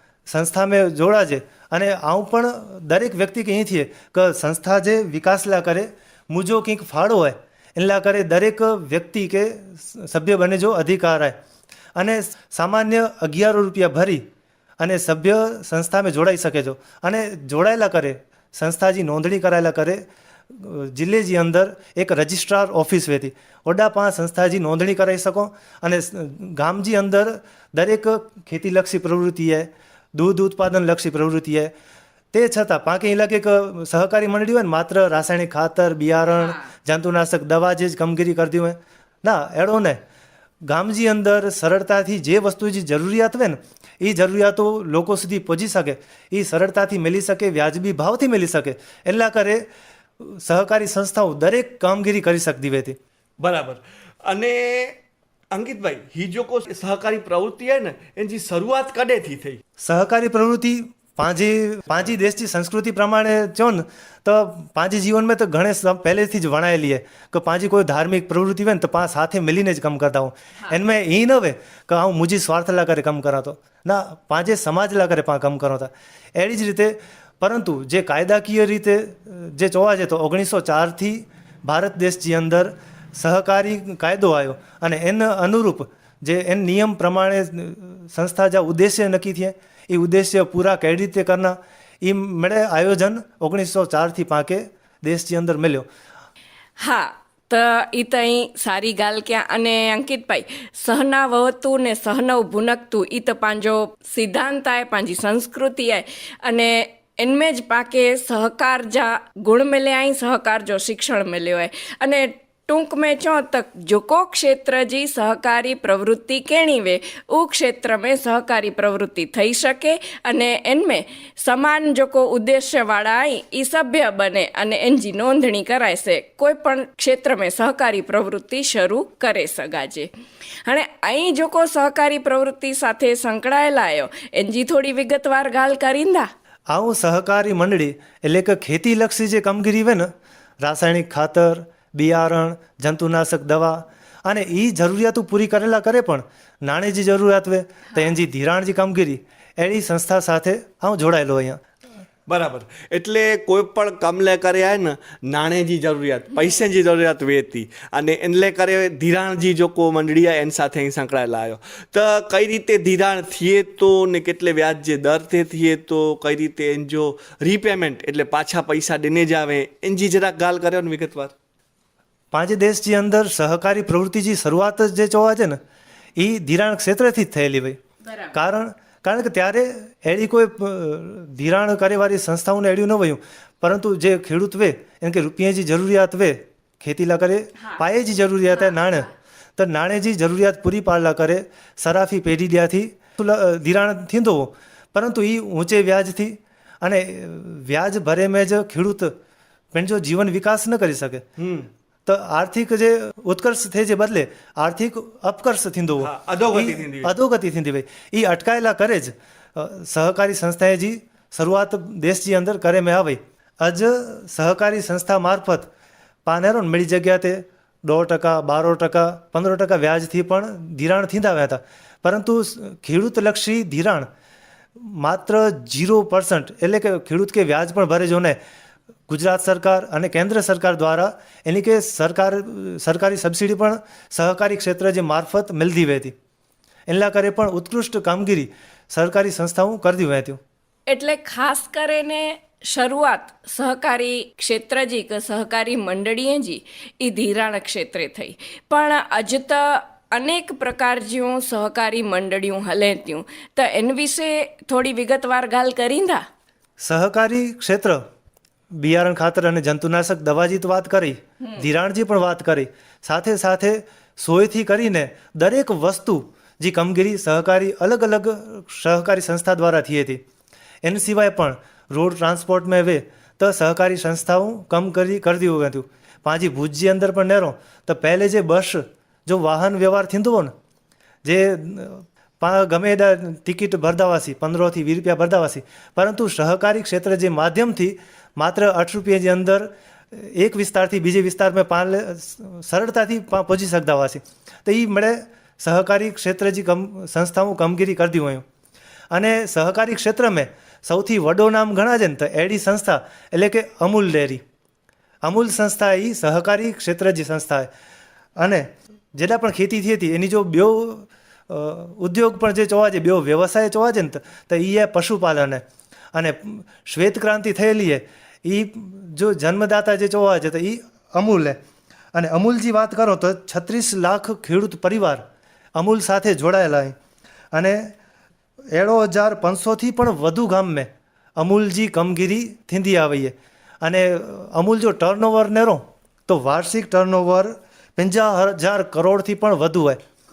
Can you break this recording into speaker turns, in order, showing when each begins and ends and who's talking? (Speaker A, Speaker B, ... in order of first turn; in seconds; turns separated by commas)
Speaker A: 0.3-11.4, Speaker A: 12.0-14.2, Speaker A: 14.8-31.7, Speaker A: 32.3-40.0, Speaker B: 36.4-36.7, Speaker A: 40.6-49.7, Speaker A: 50.2-53.0, Speaker C: 53.4-55.0, Speaker C: 55.5-59.6, Speaker A: 59.8-95.9, Speaker B: 96.8-130.1, Speaker B: 130.7-136.3, Speaker A: 136.7-151.6, Speaker C: 152.3-171.3, Speaker A: 172.3-175.6, Speaker A: 176.2-177.8, Speaker B: 178.1-178.3, Speaker A: 178.3-199.2, Speaker B: 187.6-187.8, Speaker B: 188.6-188.9, Speaker A: 199.7-201.3, Speaker C: 201.4-201.7, Speaker A: 202.1-215.7, Speaker C: 206.0-207.1, Speaker A: 216.3-224.1, Speaker A: 224.8-228.4, Speaker A: 229.1-236.1, Speaker A: 236.9-240.4, Speaker B: 240.9-256.2, Speaker A: 256.8-258.0, Speaker A: 258.7-270.2, Speaker A: 270.8-280.5, Speaker A: 281.2-298.4, Speaker A: 299.1-304.4, Speaker A: 305.2-307.7, Speaker A: 308.4-321.6, Speaker A: 322.1-327.0, Speaker A: 327.5-327.9, Speaker A: 328.7-340.0